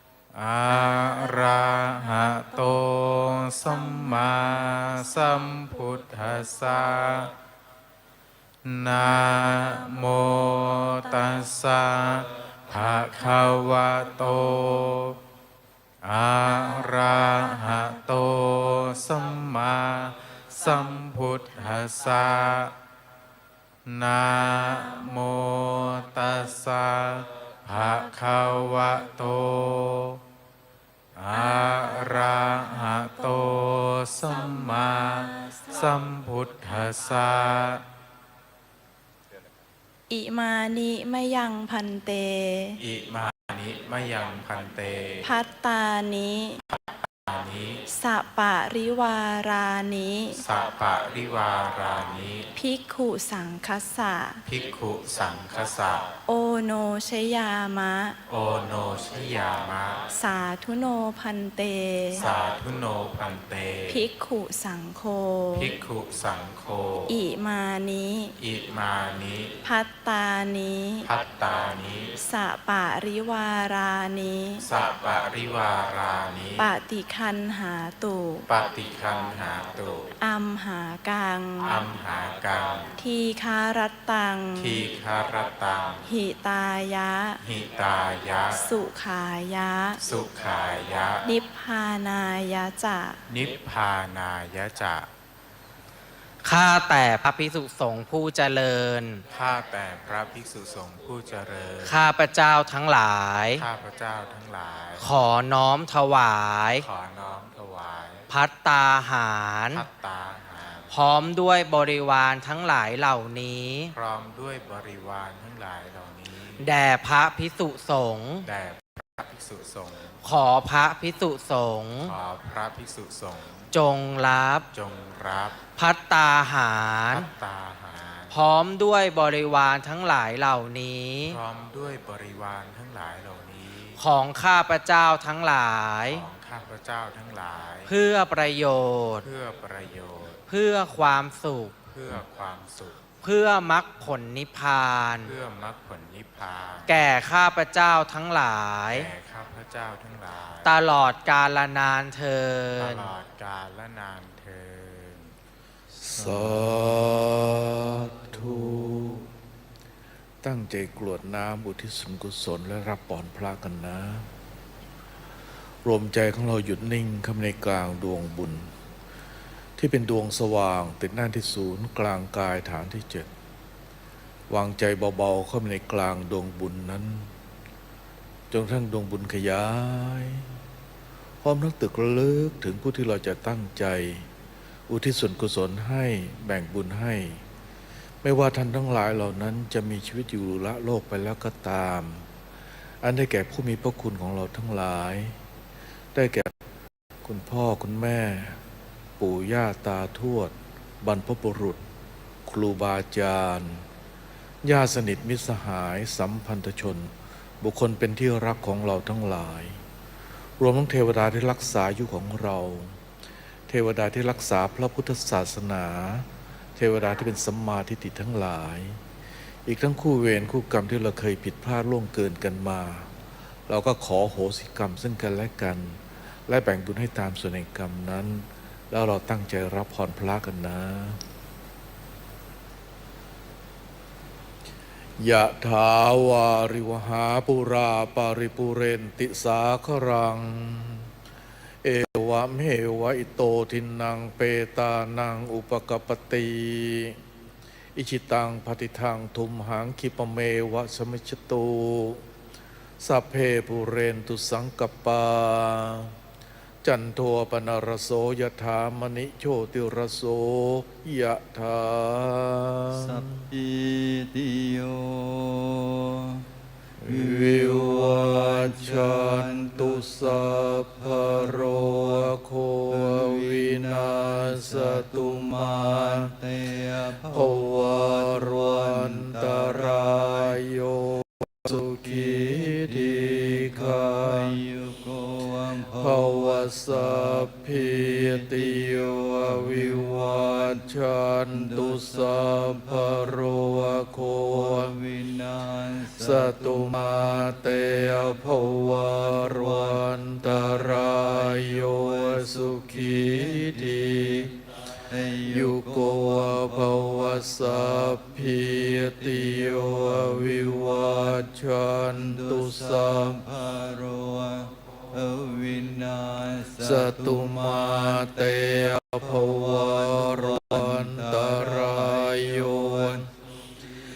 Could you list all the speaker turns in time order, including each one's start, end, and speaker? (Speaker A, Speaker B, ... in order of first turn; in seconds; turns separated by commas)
Speaker A: 0.3-7.3, Speaker A: 8.6-15.2, Speaker A: 16.0-22.8, Speaker A: 23.9-30.2, Speaker A: 31.2-37.8, Speaker B: 31.6-33.3, Speaker B: 34.3-35.7, Speaker B: 40.1-42.8, Speaker A: 42.8-45.3, Speaker B: 45.2-46.6, Speaker A: 47.2-47.8, Speaker B: 47.9-50.4, Speaker A: 50.4-52.5, Speaker B: 52.5-54.4, Speaker A: 54.5-56.1, Speaker B: 56.3-58.2, Speaker A: 58.3-60.1, Speaker B: 60.1-62.3, Speaker A: 62.1-64.0, Speaker B: 63.9-65.7, Speaker A: 65.5-67.2, Speaker B: 67.1-68.3, Speaker A: 68.4-69.6, Speaker B: 69.6-71.1, Speaker A: 71.0-72.1, Speaker B: 72.2-74.7, Speaker A: 74.6-76.7, Speaker B: 76.6-78.5, Speaker A: 78.5-80.1, Speaker B: 80.2-81.9, Speaker A: 81.6-82.9, Speaker B: 83.0-84.9, Speaker A: 84.6-86.1, Speaker B: 86.0-87.4, Speaker A: 87.4-88.7, Speaker B: 88.5-90.0, Speaker A: 90.0-91.3, Speaker B: 91.2-93.2, Speaker A: 93.3-95.1, Speaker C: 96.4-99.2, Speaker A: 99.3-102.0, Speaker C: 101.8-103.6, Speaker A: 103.6-105.1, Speaker C: 105.0-106.8, Speaker A: 106.8-108.3, Speaker C: 108.3-109.8, Speaker A: 109.7-110.9, Speaker C: 110.9-113.9, Speaker A: 113.9-116.7, Speaker C: 116.6-118.5, Speaker A: 118.4-120.2, Speaker C: 120.2-122.1, Speaker A: 122.0-123.7, Speaker C: 123.7-124.7, Speaker A: 124.7-125.6, Speaker C: 125.8-127.3, Speaker A: 127.1-128.4, Speaker C: 128.3-131.4, Speaker A: 131.3-134.0, Speaker C: 134.0-136.2, Speaker A: 136.1-137.9, Speaker C: 137.9-139.3, Speaker A: 139.2-140.4, Speaker C: 140.5-141.8, Speaker A: 141.8-143.1, Speaker C: 143.2-145.3, Speaker A: 145.2-147.0, Speaker C: 146.9-149.1, Speaker A: 148.9-150.7, Speaker C: 150.6-153.1, Speaker A: 152.8-155.3, Speaker D: 156.0-159.3, Speaker E: 156.2-157.0, Speaker D: 160.4-164.3, Speaker D: 165.8-168.7, Speaker D: 169.8-173.3, Speaker D: 174.5-177.3, Speaker D: 178.5-180.5, Speaker D: 181.4-184.3, Speaker D: 184.9-187.4, Speaker D: 188.2-192.3, Speaker D: 193.0-195.3, Speaker D: 196.1-196.5, Speaker D: 197.2-198.6, Speaker D: 199.2-201.8, Speaker D: 202.5-203.9, Speaker D: 204.6-209.8, Speaker D: 210.6-213.0, Speaker D: 213.7-219.0, Speaker D: 219.7-223.1, Speaker D: 223.7-231.2, Speaker D: 235.2-241.1, Speaker D: 241.8-247.2, Speaker D: 248.0-252.2, Speaker D: 253.0-256.2, Speaker D: 256.8-263.5, Speaker E: 262.9-266.5, Speaker D: 267.0-276.4, Speaker E: 267.1-272.3, Speaker E: 272.9-280.6, Speaker D: 277.3-284.6, Speaker E: 282.0-290.8, Speaker D: 285.9-295.0, Speaker E: 291.5-293.4, Speaker E: 294.2-300.0, Speaker D: 296.1-304.6, Speaker E: 300.6-304.5, Speaker E: 305.1-311.5, Speaker D: 305.4-313.4, Speaker E: 312.1-323.3, Speaker D: 316.8-323.3